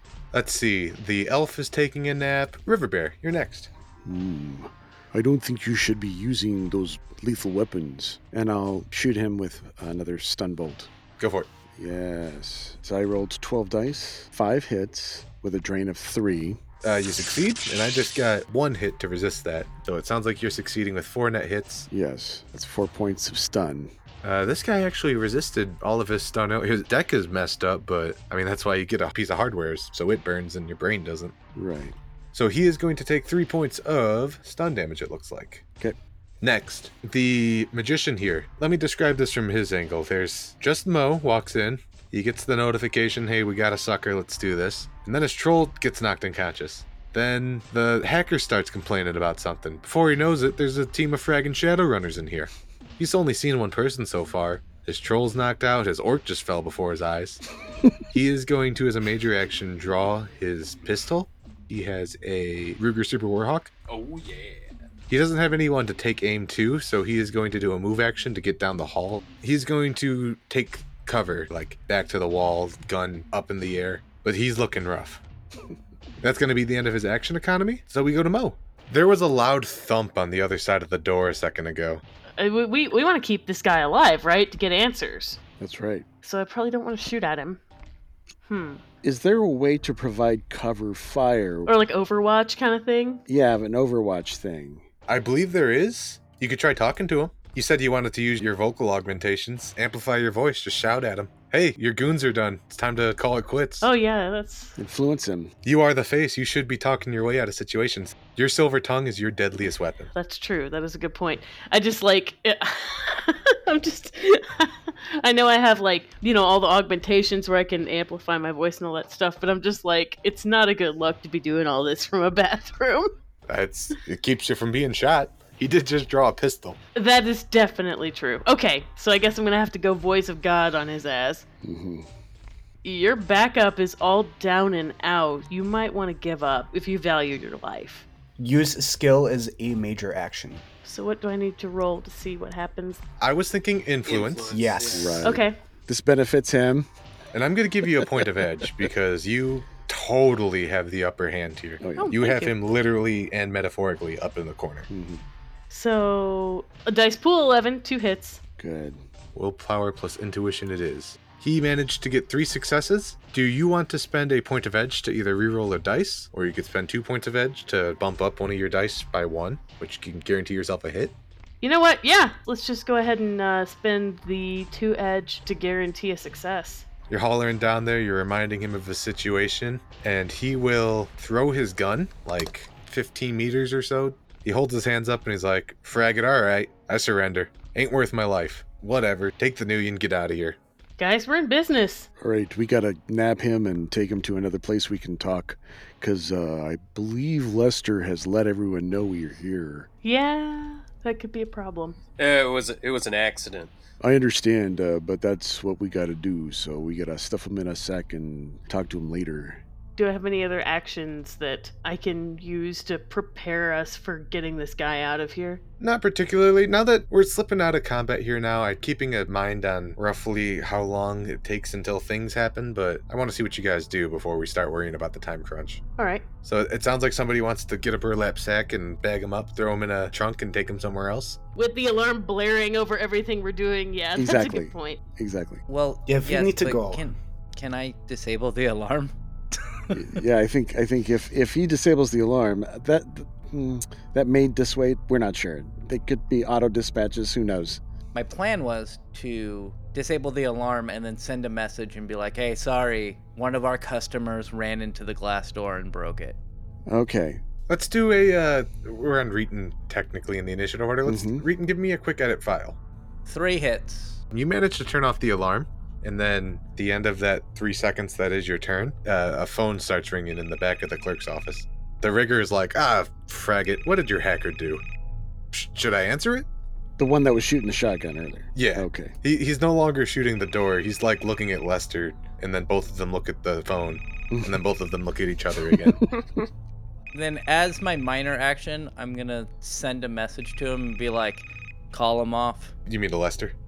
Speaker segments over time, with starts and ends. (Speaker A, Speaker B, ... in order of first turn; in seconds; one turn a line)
Speaker A: 0.3-3.7
Speaker B: 4.0-10.9
Speaker A: 11.2-11.5
Speaker B: 11.8-16.6
Speaker A: 16.8-21.9
Speaker B: 21.9-23.9
Speaker A: 24.2-31.3
Speaker B: 31.5-31.9
Speaker A: 32.3-35.6
Speaker A: 36.4-57.4
Speaker A: 58.1-63.7
Speaker C: 63.9-64.7
Speaker A: 65.1-75.2
Speaker A: 76.2-82.0
Speaker D: 82.4-85.4
Speaker B: 85.6-86.0
Speaker D: 86.2-87.6
Speaker D: 88.5-88.8
Speaker B: 89.0-91.7
Speaker D: 91.7-93.2
Speaker B: 93.3-94.9
Speaker A: 95.1-103.9
Speaker D: 103.8-104.7
Speaker B: 104.8-105.5
Speaker A: 105.6-110.1
Speaker D: 110.1-123.1
Speaker A: 123.5-126.8
Speaker D: 127.0-131.4
Speaker B: 131.6-132.1
Speaker D: 132.8-138.0
Speaker E: 138.4-140.6
Speaker D: 140.8-143.0
Speaker A: 143.2-144.6
Speaker C: 144.0-145.2
Speaker E: 144.5-145.3
Speaker B: 144.9-146.9
Speaker D: 145.2-145.6
Speaker A: 147.3-154.9
Speaker B: 147.9-148.7
Speaker B: 151.8-152.2
Speaker D: 152.0-152.5
Speaker B: 154.9-155.2
Speaker D: 155.7-158.4
Speaker B: 158.6-159.0
Speaker A: 159.3-171.1
Speaker D: 171.6-176.8
Speaker A: 177.1-190.6
Speaker D: 191.0-192.1
Speaker B: 192.2-199.9
Speaker D: 200.0-202.0
Speaker C: 202.2-203.7
Speaker B: 204.0-209.6
Speaker D: 210.0-215.6
Speaker A: 215.8-225.8
Speaker D: 226.0-226.2
Speaker A: 226.4-231.4
Speaker D: 231.6-235.0
Speaker B: 234.2-235.6
Speaker F: 235.7-239.1
Speaker E: 236.1-237.1
Speaker B: 239.9-247.8
Speaker F: 248.1-256.4
Speaker B: 256.9-257.4
Speaker A: 257.7-262.8
Speaker B: 261.0-261.4
Speaker F: 263.2-264.2
Speaker A: 264.3-274.8
Speaker A: 275.5-276.4
Speaker B: 277.0-279.1
Speaker A: 278.5-286.0
Speaker B: 284.3-284.6
Speaker B: 285.7-285.9
Speaker F: 287.1-292.7
Speaker A: 292.9-293.5